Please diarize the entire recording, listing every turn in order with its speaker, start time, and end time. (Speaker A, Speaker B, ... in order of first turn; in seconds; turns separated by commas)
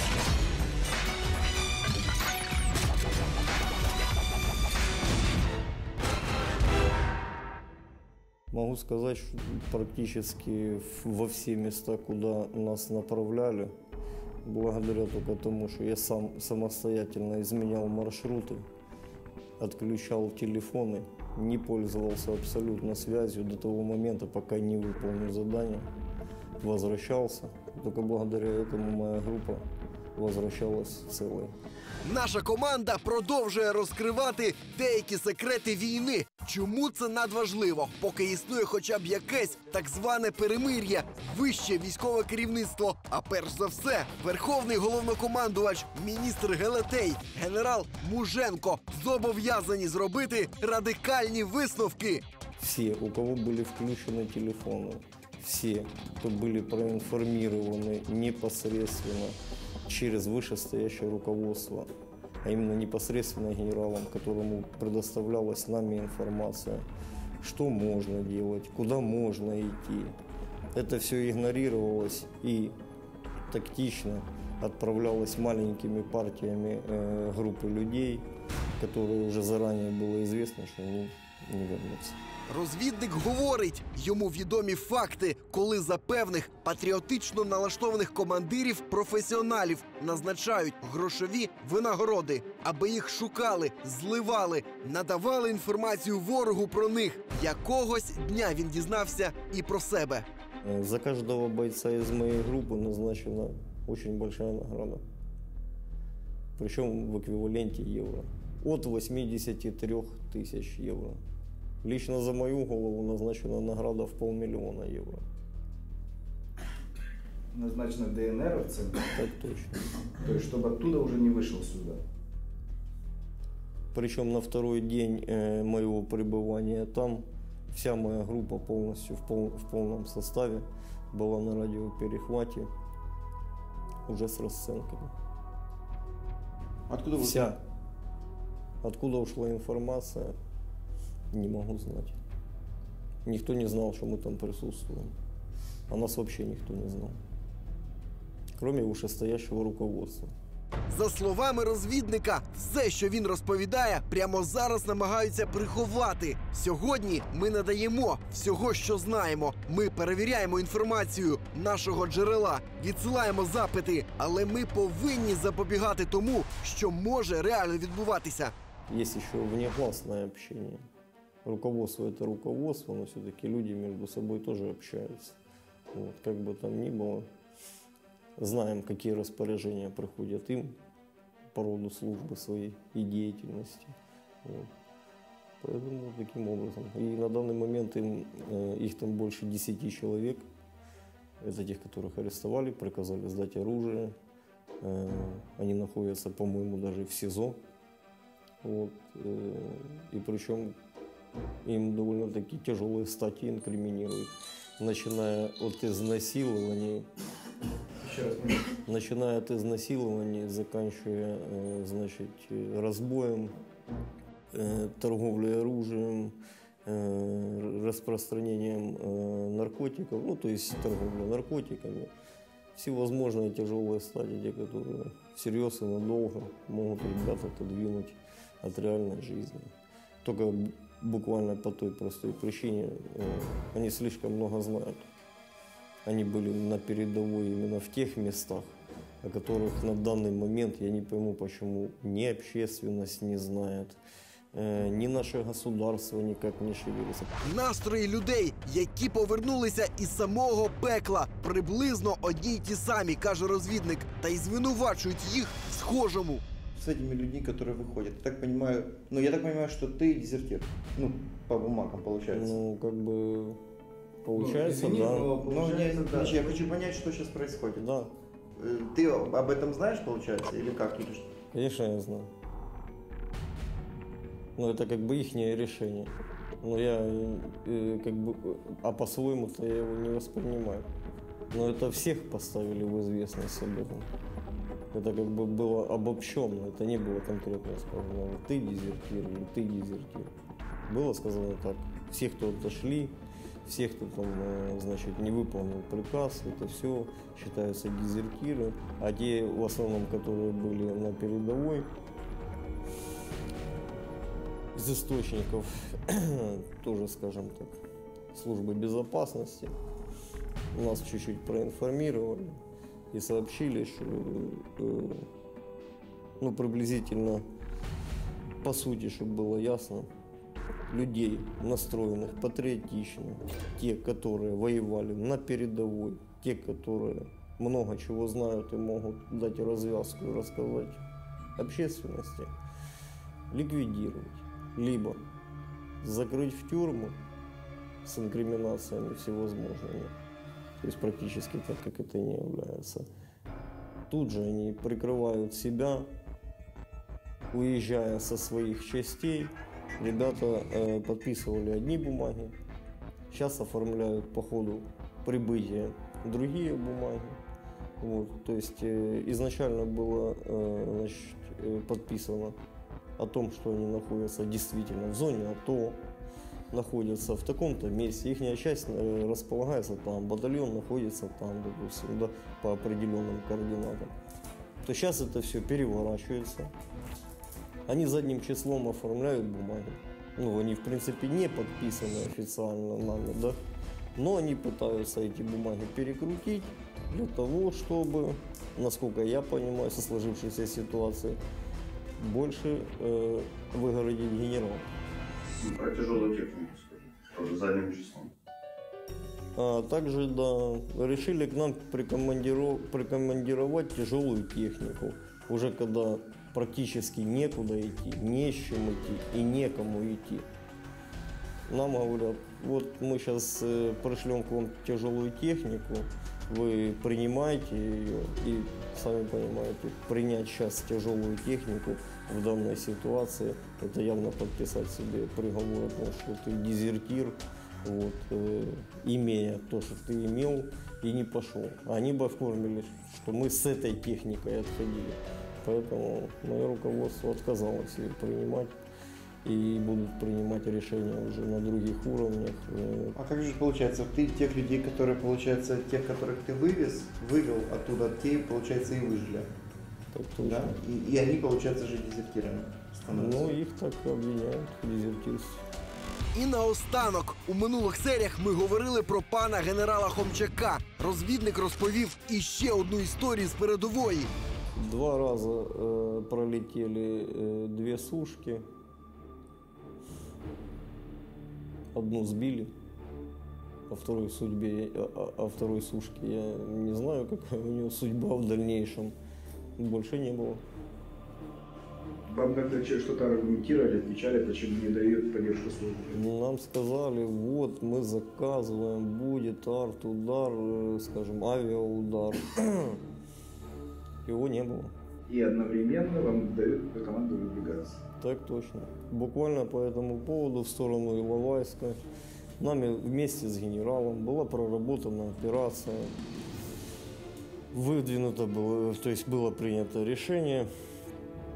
Speaker A: 8.5-13.7, Speaker A: 14.4-18.6, Speaker A: 19.6-25.9, Speaker A: 26.6-29.6, Speaker A: 30.2-31.6, Speaker B: 32.0-52.2, Speaker A: 52.6-61.9, Speaker A: 62.4-66.8, Speaker A: 67.4-70.2, Speaker A: 70.7-72.8, Speaker A: 73.5-78.3, Speaker A: 78.8-82.2, Speaker B: 82.5-100.3, Speaker A: 100.6-105.0, Speaker A: 106.6-111.2, Speaker A: 111.8-115.2, Speaker C: 117.5-119.1, Speaker A: 119.1-119.8, Speaker C: 120.2-122.0, Speaker A: 123.9-132.7, Speaker A: 134.1-135.1, Speaker D: 136.9-137.5, Speaker A: 137.2-137.6, Speaker A: 138.8-140.3, Speaker A: 141.3-142.2, Speaker A: 143.2-145.1, Speaker A: 145.9-147.2, Speaker A: 148.6-150.3, Speaker B: 150.9-168.5, Speaker A: 168.9-170.8, Speaker A: 171.4-175.4, Speaker A: 175.9-177.3, Speaker A: 178.4-180.8, Speaker A: 181.5-184.7, Speaker A: 185.6-190.4, Speaker A: 191.4-194.2, Speaker A: 194.8-197.6, Speaker A: 198.6-200.8, Speaker A: 201.6-207.1, Speaker C: 208.0-208.7, Speaker A: 208.9-213.6, Speaker A: 214.5-222.1, Speaker A: 222.8-229.7, Speaker A: 230.2-235.1, Speaker A: 236.1-244.0, Speaker A: 244.5-247.4, Speaker B: 247.4-256.4, Speaker D: 256.8-262.6, Speaker A: 262.3-263.6, Speaker A: 264.2-265.4, Speaker C: 264.3-266.6, Speaker D: 265.3-267.8, Speaker A: 267.8-268.1, Speaker D: 268.6-271.3, Speaker A: 271.5-272.3, Speaker A: 274.6-276.1, Speaker A: 276.6-280.9, Speaker A: 281.5-284.1, Speaker A: 284.9-290.3, Speaker A: 290.9-301.9, Speaker A: 304.7-307.8, Speaker A: 308.3-309.8, Speaker A: 310.7-312.6, Speaker A: 313.1-315.3, Speaker A: 316.4-317.4, Speaker A: 318.6-320.1, Speaker A: 320.9-331.0, Speaker A: 331.6-332.5, Speaker A: 333.5-335.2, Speaker A: 336.0-337.1, Speaker A: 338.0-340.1, Speaker A: 340.8-343.1, Speaker A: 344.1-346.1, Speaker A: 347.5-352.6, Speaker A: 353.3-357.4, Speaker A: 358.0-362.6, Speaker A: 363.2-366.0, Speaker A: 366.7-374.1, Speaker A: 374.8-376.7, Speaker A: 377.9-383.6, Speaker A: 384.2-391.4, Speaker A: 392.2-394.8, Speaker E: 395.6-398.3, Speaker A: 399.6-410.5, Speaker A: 411.7-438.8, Speaker A: 439.4-443.2, Speaker D: 443.2-449.5, Speaker A: 450.1-450.8, Speaker D: 450.4-453.5, Speaker A: 453.1-455.6, Speaker B: 456.3-464.3, Speaker A: 464.8-468.6, Speaker A: 471.9-472.7, Speaker A: 473.9-479.1, Speaker A: 479.8-480.6, Speaker C: 482.3-486.2, Speaker A: 486.1-493.0, Speaker A: 494.3-494.9, Speaker C: 495.3-498.0, Speaker A: 498.2-502.0, Speaker A: 502.6-506.1, Speaker A: 507.7-510.7